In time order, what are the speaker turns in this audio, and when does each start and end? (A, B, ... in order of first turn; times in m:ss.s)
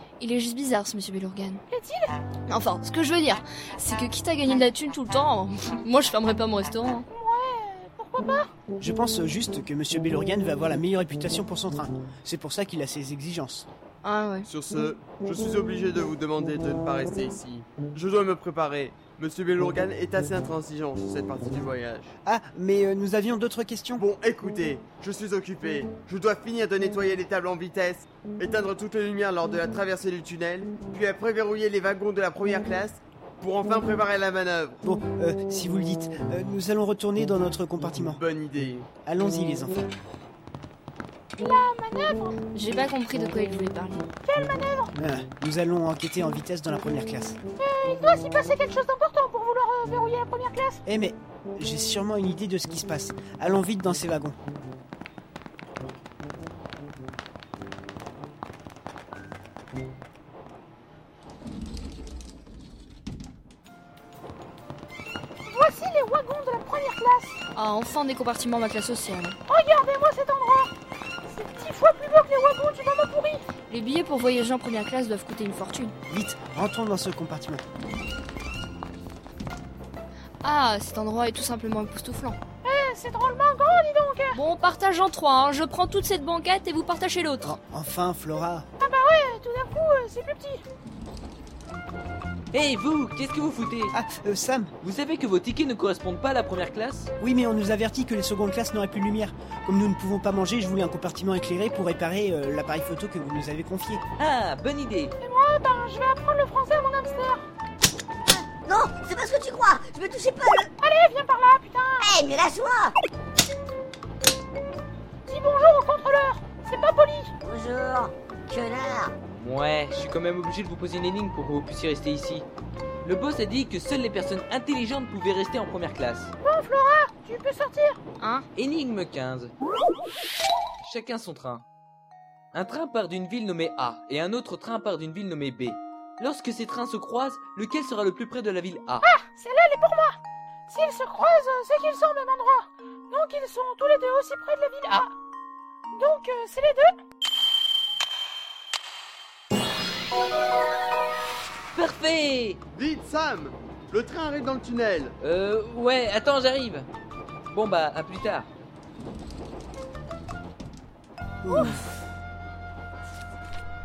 0:00.2-0:01.6 A
0:01.7-0:02.1 B
0:02.5-0:07.1 A
0:07.1-0:08.5 B
0:08.8-0:13.7 C
0:14.0-0:14.5 A
0:14.4-0:22.1 D
0:22.2-0:24.0 C
0:24.0-0:34.8 D
0:34.8-0:38.2 C
0:38.2-0:38.9 D
0:39.0-0:39.9 C
0:41.4-0:42.4 B
0:42.5-0:44.0 A
0:44.2-0:44.9 B
0:45.0-0:47.4 C
0:47.6-0:50.8 B
0:50.8-0:54.4 C
1:05.5-1:07.4 B
1:07.5-1:09.4 A
1:09.5-1:10.7 B
1:11.3-1:13.5 B
1:13.7-1:15.9 A
1:16.1-1:17.6 C
1:20.4-1:22.4 A
1:22.6-1:24.4 B
1:24.3-1:27.5 A
1:27.4-1:28.7 C
1:28.8-1:30.6 B
1:32.5-1:33.9 E
1:33.9-1:34.7 C
1:34.8-1:37.1 E
1:37.2-1:44.0 C
1:44.2-1:45.1 E
1:45.2-1:47.4 B
1:48.3-1:50.7 F
1:50.8-1:52.1 B
1:52.0-1:52.9 F
1:55.3-1:57.3 B
1:57.4-1:59.1 F
1:59.4-2:02.5 E
2:03.0-2:06.3 E
2:06.4-2:08.0 B
2:08.2-2:08.4 A
2:08.5-2:09.5 E
2:10.8-2:11.6 E
2:12.5-2:19.0 E
2:19.0-2:20.2 B
2:20.7-2:25.1 B
2:26.0-2:26.9 B
2:31.7-2:32.6 E
2:32.7-2:35.2 D
2:35.2-2:36.9 E
2:37.5-2:38.5 E
2:41.4-2:41.8 C